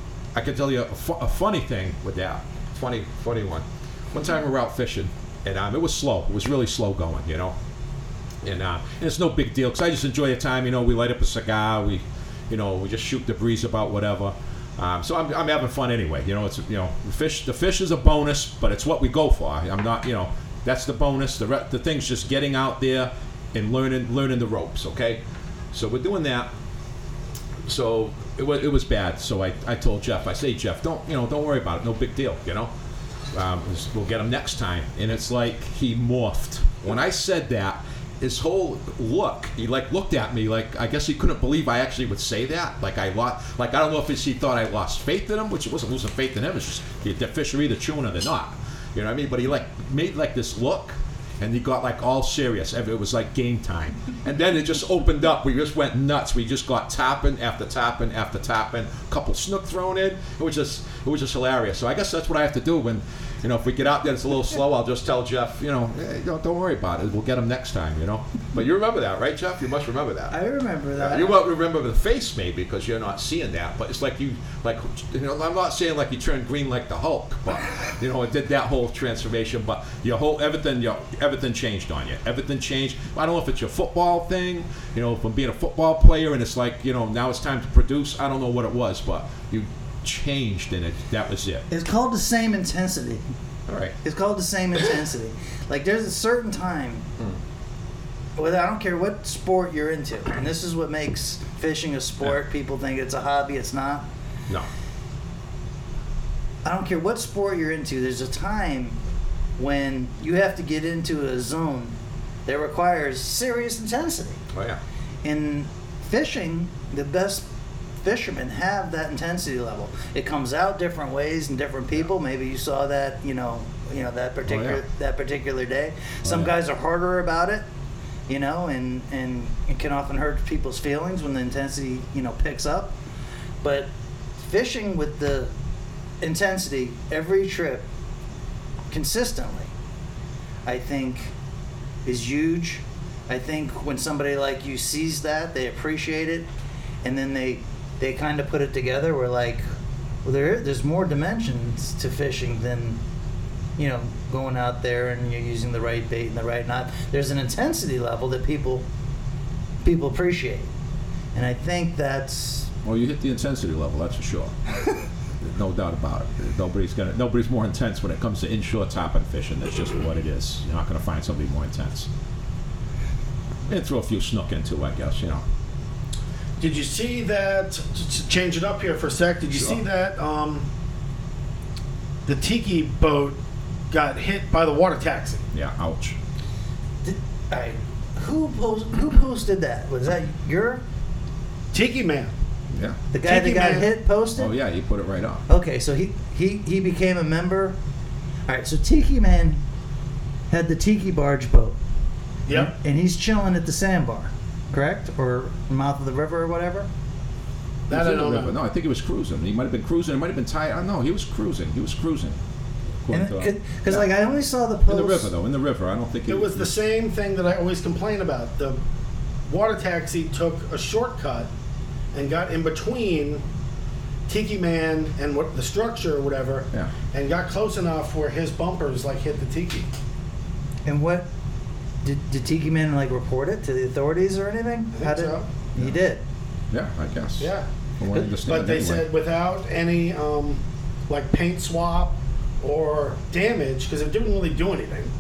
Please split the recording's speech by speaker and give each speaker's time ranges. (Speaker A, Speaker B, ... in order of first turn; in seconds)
Speaker A: 0.3-7.6, 8.4-25.2, 25.7-26.5, 27.6-32.7, 33.3-70.3, 71.0-91.7, 93.7-94.0, 114.5-114.8, 124.5-124.8, 126.2-126.5, 162.8-164.6, 165.4-172.1, 173.7-175.4, 179.5-179.8, 185.5-186.2, 192.7-193.0, 194.4-195.4, 207.9-212.4, 213.0-214.1, 214.9-216.7, 236.7-239.1
Speaker B: 70.3-71.4, 91.7-93.2, 94.0-97.1, 98.4-104.1, 106.6-109.0, 109.6-112.0, 112.5-114.4, 115.2-117.5, 118.0-127.6, 128.3-133.0, 133.6-135.5, 136.2-137.9, 138.9-139.7, 140.7-141.3, 142.1-146.5, 147.0-149.6, 150.2-153.0, 153.8-158.8, 159.8-160.7, 161.3-162.7, 187.0-190.8, 193.1-194.5, 195.5-197.8, 198.5-199.6, 200.5-201.8, 202.5-206.9, 213.1-215.3, 230.8-231.3, 232.0-236.2
Speaker C: 176.6-180.7, 182.3-183.4, 183.9-185.4, 191.7-192.3, 193.2-193.9, 202.5-202.7, 207.9-208.6, 216.3-218.8, 219.5-221.5, 222.1-223.4, 224.3-229.9, 235.0-235.5, 237.4-237.7, 238.2-245.1